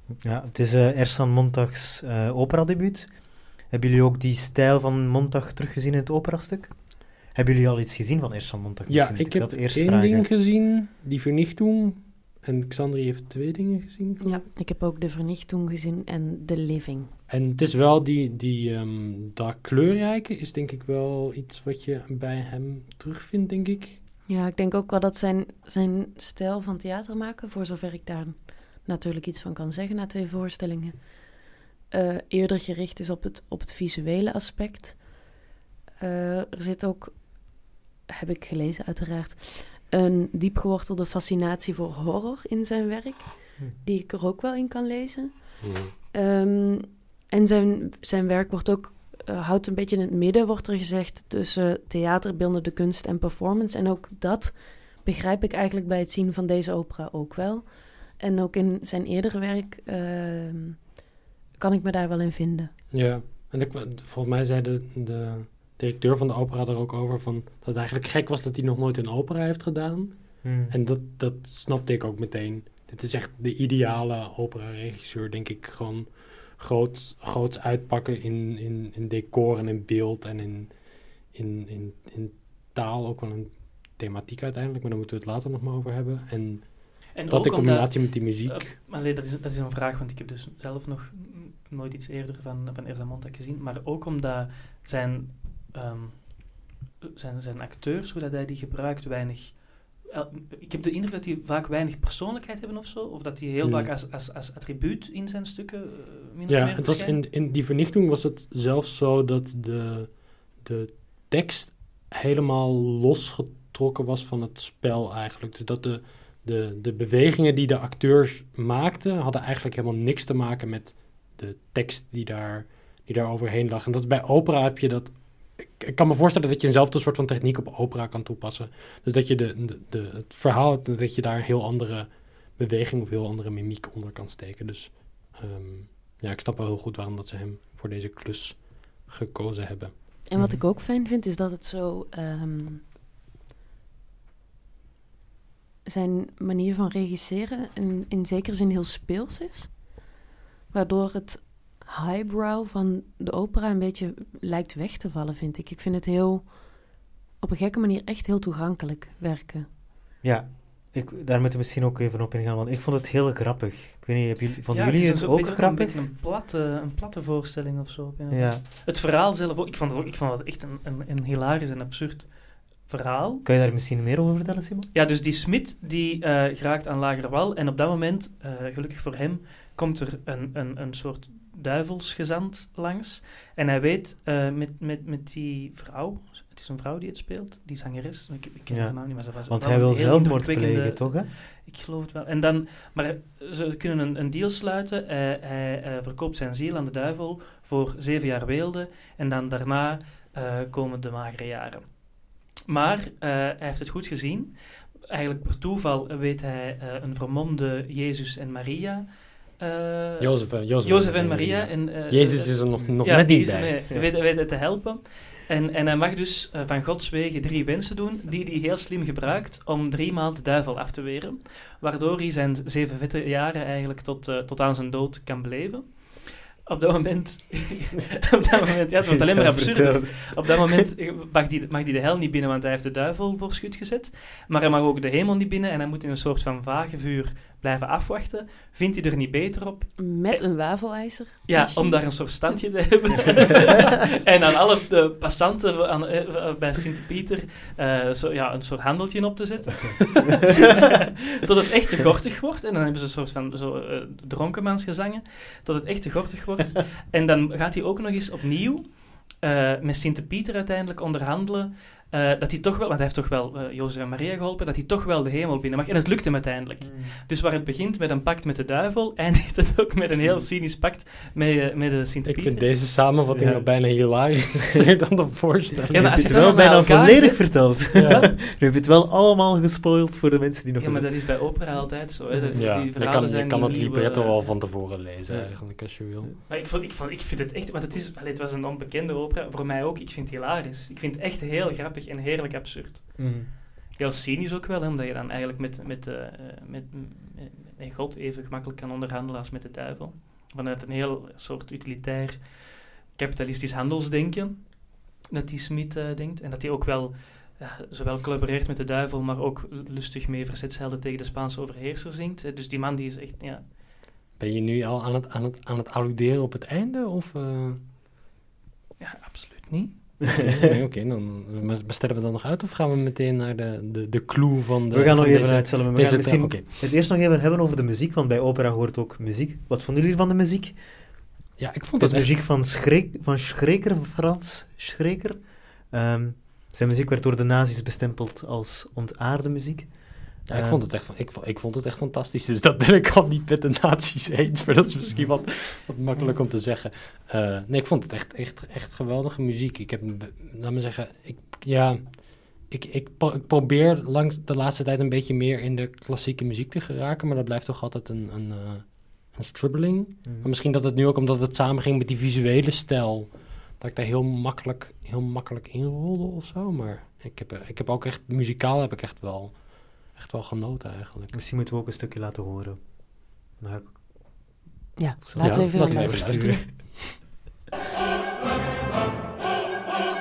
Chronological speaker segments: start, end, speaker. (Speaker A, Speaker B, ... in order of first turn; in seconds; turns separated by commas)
Speaker A: 0.2-10.3, Speaker B: 8.9-14.4, Speaker C: 14.2-17.1, Speaker B: 17.3-24.0, Speaker C: 24.3-35.4, Speaker C: 36.0-62.7, Speaker B: 45.6-45.9, Speaker B: 62.9-88.7, Speaker A: 70.4-70.8, Speaker D: 87.2-107.2, Speaker B: 106.5-140.0, Speaker C: 140.3-142.8, Speaker A: 140.3-140.6, Speaker C: 145.8-150.0, Speaker C: 150.7-159.7, Speaker A: 160.2-166.0, Speaker D: 164.7-173.4, Speaker A: 168.3-168.6, Speaker A: 173.4-174.9, Speaker D: 174.9-240.4, Speaker A: 188.7-191.3, Speaker B: 210.2-213.8, Speaker A: 229.1-230.7, Speaker C: 240.0-242.5, Speaker D: 241.5-272.7, Speaker A: 266.8-267.2, Speaker A: 270.2-270.5, Speaker B: 272.3-276.6, Speaker A: 273.3-273.9, Speaker A: 275.9-281.3, Speaker D: 275.9-278.3, Speaker B: 278.0-278.3, Speaker D: 280.8-284.6, Speaker A: 282.3-282.7, Speaker B: 282.5-286.3, Speaker A: 285.3-286.4, Speaker D: 286.5-313.7, Speaker A: 293.2-293.5, Speaker B: 314.4-317.9, Speaker D: 319.0-320.3, Speaker B: 320.2-326.7, Speaker A: 320.3-320.6, Speaker A: 324.9-331.2, Speaker B: 331.6-332.3, Speaker A: 332.0-340.9, Speaker B: 340.5-371.3, Speaker A: 345.1-345.4, Speaker A: 360.2-360.5, Speaker A: 371.3-374.6, Speaker C: 375.0-376.6, Speaker A: 375.3-377.2, Speaker B: 375.4-377.1